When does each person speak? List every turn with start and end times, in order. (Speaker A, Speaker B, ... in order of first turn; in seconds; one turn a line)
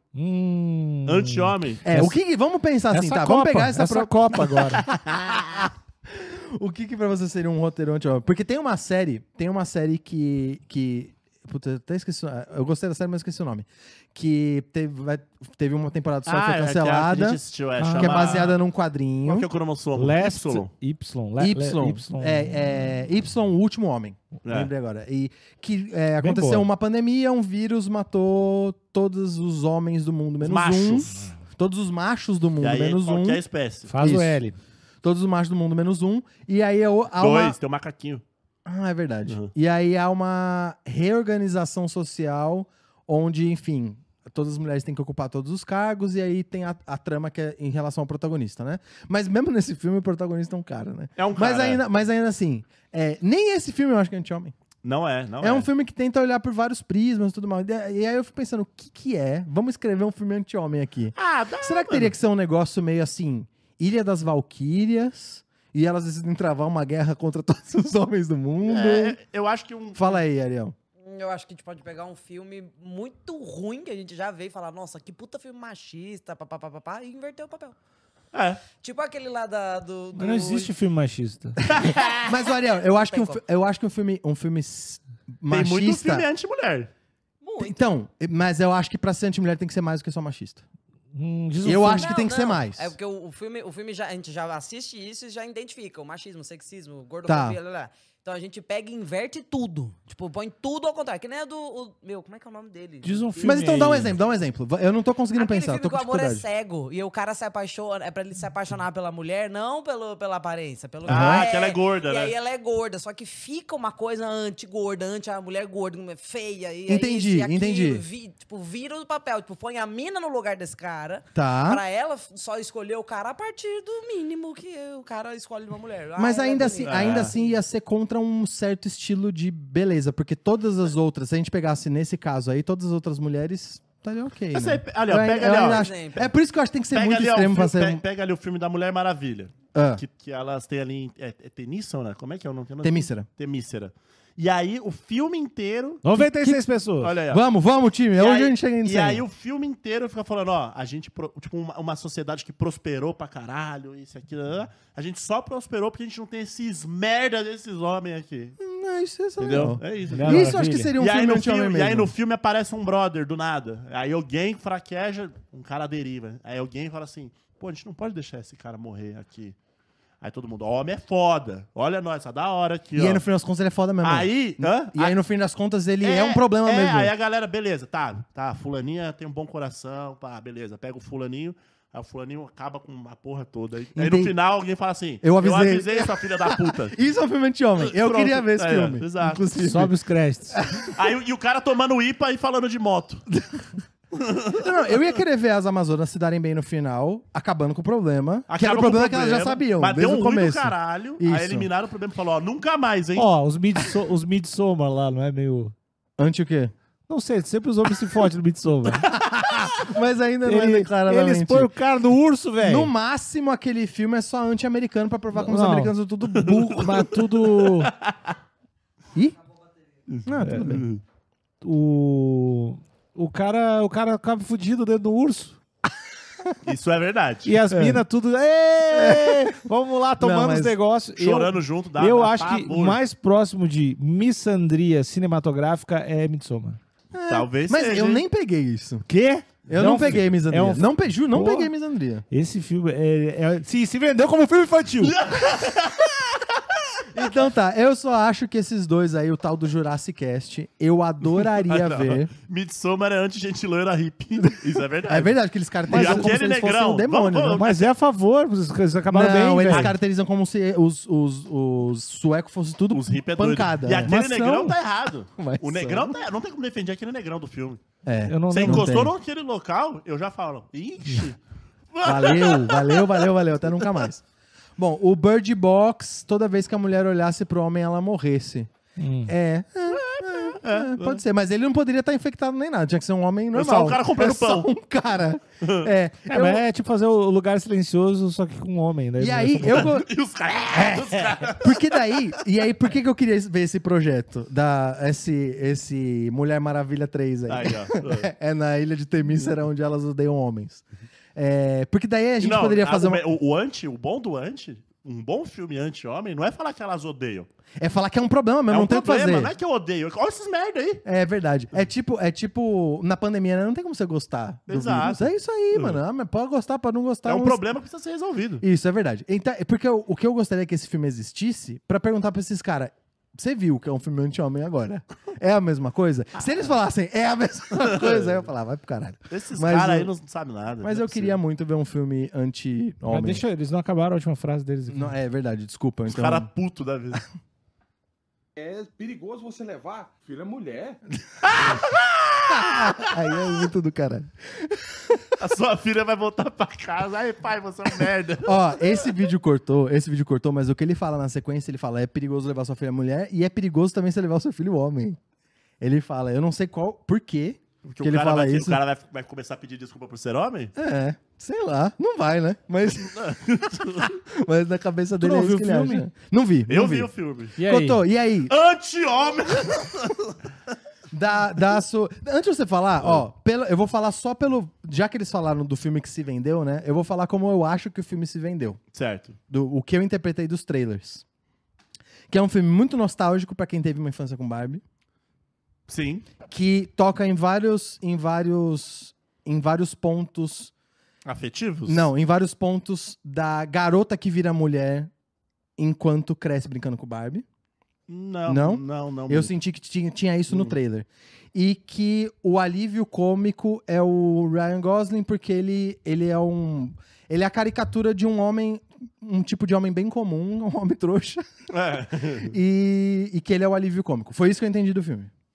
Speaker A: 0.1-2.2
Speaker B: 1.1-1.9
Speaker C: 1.9-17.4
Speaker A: 2.9-4.8
Speaker B: 4.9-5.4
Speaker B: 16.3-18.6
Speaker A: 17.8-18.4
Speaker C: 17.9-19.5
Speaker B: 19.2-20.7
Speaker A: 20.0-22.7
Speaker C: 21.4-33.4
Speaker B: 24.4-24.7
Speaker A: 26.2-26.7
Speaker B: 30.4-31.1
Speaker B: 32.6-33.9
Speaker A: 33.9-34.6
Speaker C: 34.0-34.4
Speaker C: 35.0-37.6
Speaker B: 37.2-38.2
Speaker C: 38.7-54.6
Speaker B: 51.2-51.8
Speaker B: 54.8-55.7
Speaker C: 55.4-69.2
Speaker B: 61.2-62.1
Speaker B: 68.7-70.2
Speaker C: 70.0-70.8
Speaker D: 71.0-77.8
Speaker B: 78.3-78.6
Speaker D: 78.8-80.7
Speaker A: 80.2-81.6
Speaker D: 81.7-83.4
Speaker B: 81.7-82.2
Speaker C: 81.7-86.3
Speaker B: 85.5-86.9
Speaker D: 87.4-87.9
Speaker C: 87.6-90.6
Speaker A: 91.1-92.1
Speaker C: 91.6-93.0
Speaker D: 91.9-103.1
Speaker C: 97.3-97.6
Speaker A: 103.0-104.2
Speaker C: 103.4-106.5
Speaker D: 105.3-127.6
Speaker B: 111.0-112.3
Speaker C: 111.1-111.5
Speaker C: 116.9-118.0
Speaker C: 121.3-121.8
Speaker C: 126.2-138.0
Speaker B: 126.8-127.3
Speaker B: 134.5-135.9
Speaker D: 135.5-136.3
Speaker B: 136.9-146.1
Speaker C: 139.7-140.0
Speaker C: 142.8-143.3
Speaker A: 146.0-147.1
Speaker C: 146.2-146.6
Speaker B: 147.0-147.4
Speaker C: 147.3-149.2
Speaker B: 148.2-158.6
Speaker C: 158.6-162.1
Speaker B: 159.4-169.6
Speaker A: 160.1-160.9
Speaker B: 170.2-173.2
Speaker C: 172.9-177.1
Speaker B: 174.0-175.2
Speaker B: 176.0-187.0
Speaker C: 183.9-184.3
Speaker C: 185.2-189.9
Speaker B: 187.8-189.5
Speaker A: 189.6-190.7
Speaker C: 190.5-190.9
Speaker B: 190.9-193.2
Speaker C: 193.3-193.7
Speaker B: 194.2-195.0
Speaker C: 194.6-201.7
Speaker B: 198.5-203.3
Speaker A: 203.2-205.8
Speaker C: 206.2-206.7
Speaker A: 207.1-209.2
Speaker C: 209.1-211.7
Speaker A: 210.5-212.9
Speaker C: 212.6-217.2
Speaker A: 215.3-215.9
Speaker B: 216.4-216.9
Speaker A: 216.7-217.9
Speaker B: 217.6-218.3
Speaker B: 220.1-221.0
Speaker C: 220.3-220.8
Speaker A: 220.4-220.7
Speaker A: 221.6-225.6
Speaker B: 226.6-227.6
Speaker A: 227.4-236.8
Speaker C: 227.7-228.0
Speaker C: 228.9-229.6
Speaker C: 230.2-230.8
Speaker B: 231.2-233.0
Speaker C: 237.1-239.1
Speaker B: 237.3-238.2
Speaker A: 239.1-241.7
Speaker C: 239.7-242.2
Speaker A: 242.3-245.2
Speaker B: 245.0-246.7
Speaker C: 247.1-252.3
Speaker B: 251.6-255.3
Speaker C: 255.1-257.6
Speaker B: 255.9-257.9
Speaker A: 255.9-256.3
Speaker A: 257.5-259.9
Speaker C: 259.1-264.8
Speaker B: 262.9-267.8
Speaker C: 265.4-266.2
Speaker C: 268.1-269.1
Speaker A: 268.3-269.0
Speaker B: 268.5-271.4
Speaker B: 271.9-273.3
Speaker C: 272.0-274.2
Speaker C: 274.8-278.7
Speaker A: 279.0-279.3
Speaker C: 279.3-286.6
Speaker B: 279.9-281.2
Speaker B: 283.5-284.7
Speaker B: 285.6-285.9
Speaker A: 286.3-289.9
Speaker C: 289.2-290.1
Speaker B: 289.6-292.4
Speaker C: 290.7-300.8
Speaker B: 297.5-298.3
Speaker C: 301.4-303.3
Speaker B: 302.4-307.5
Speaker C: 307.8-309.6
Speaker B: 308.7-311.0
Speaker C: 311.1-317.6
Speaker B: 314.7-316.0
Speaker B: 317.3-318.6
Speaker C: 318.6-330.1
Speaker B: 327.8-328.4
Speaker B: 329.3-331.4
Speaker C: 330.8-333.4
Speaker A: 333.1-335.1
Speaker C: 334.9-336.5
Speaker B: 336.1-337.2
Speaker E: 338.6-341.0
Speaker B: 341.4-343.0
Speaker C: 342.5-345.4
Speaker B: 345.4-349.0
Speaker C: 348.4-355.2
Speaker C: 355.8-358.8
Speaker B: 357.9-360.7
Speaker C: 360.8-368.5
Speaker B: 363.1-364.1
Speaker A: 365.2-366.1
Speaker B: 366.7-367.6
Speaker A: 367.6-368.0
Speaker B: 368.5-370.4
Speaker C: 371.1-378.8
Speaker B: 378.9-379.4
Speaker C: 379.5-381.2
Speaker C: 382.3-384.8
Speaker B: 385.9-386.3
Speaker C: 386.4-390.7
Speaker B: 391.2-392.1
Speaker C: 391.9-395.1
Speaker C: 395.8-397.4
Speaker B: 398.1-399.5
Speaker C: 398.5-411.5
Speaker B: 411.7-412.5
Speaker C: 412.2-415.3